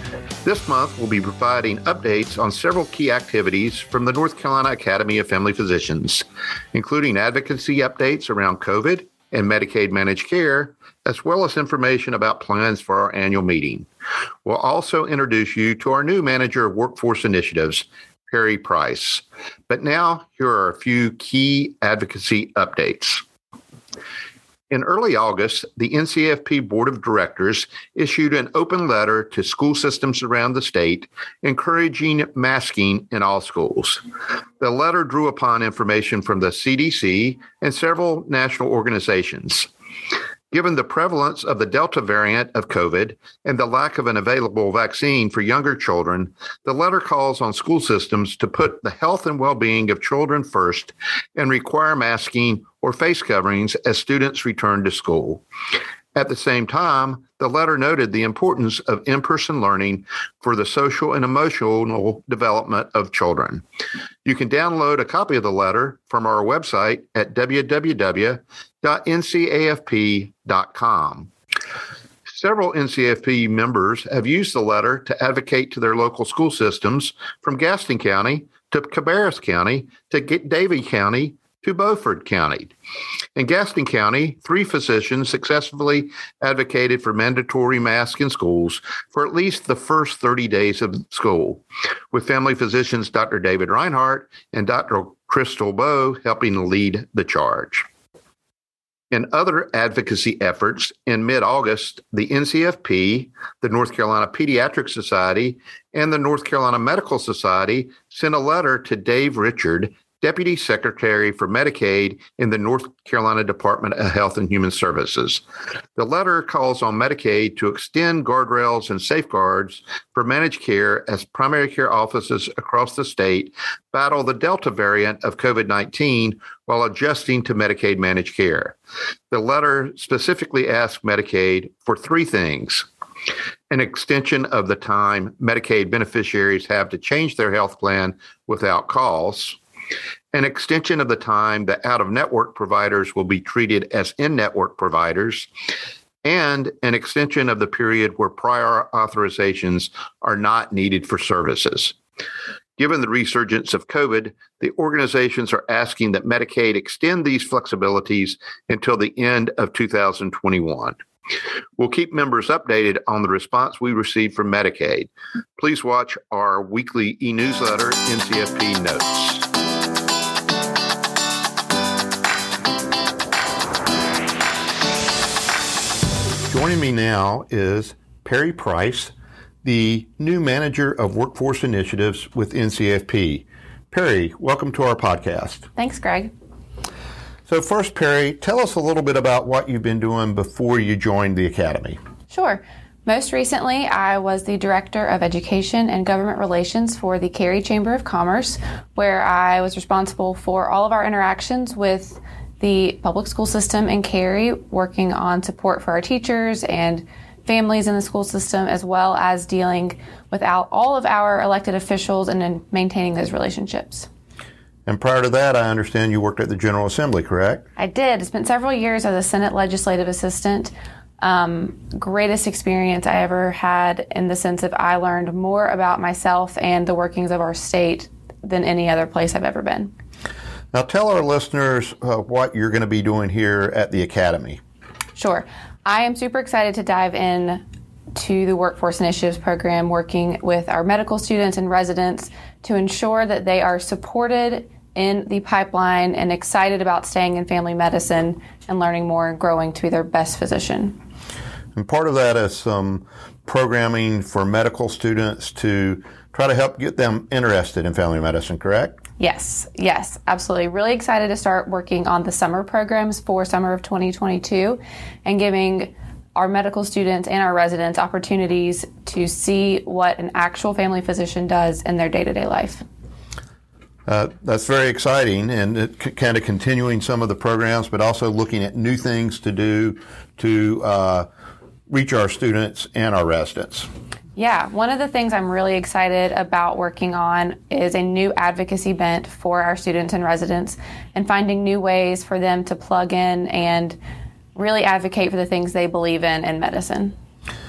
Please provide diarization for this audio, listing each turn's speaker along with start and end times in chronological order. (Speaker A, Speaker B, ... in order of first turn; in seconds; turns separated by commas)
Speaker A: 0.4-13.9, Speaker A: 14.4-23.2, Speaker A: 24.7-34.0, Speaker A: 34.6-39.7, Speaker A: 40.5-55.4, Speaker A: 56.1-63.6, Speaker A: 64.2-71.3, Speaker A: 72.3-82.7, Speaker A: 83.4-97.9, Speaker A: 99.1-115.4, Speaker A: 116.0-128.8, Speaker A: 129.3-132.9, Speaker A: 133.7-139.6, Speaker A: 140.3-145.5, Speaker A: 146.2-152.0, Speaker A: 152.8-161.0, Speaker A: 161.8-169.5, Speaker A: 176.5-179.1, Speaker A: 179.6-185.7, Speaker B: 185.8-186.3, Speaker A: 187.5-192.0, Speaker B: 192.3-214.1, Speaker A: 214.9-217.6, Speaker B: 217.8-229.9, Speaker A: 230.7-234.6, Speaker B: 235.2-237.6, Speaker B: 238.2-251.0, Speaker A: 251.8-259.0, Speaker B: 259.2-272.8, Speaker A: 274.1-281.3, Speaker A: 281.9-283.9, Speaker B: 284.4-294.0, Speaker B: 294.6-297.1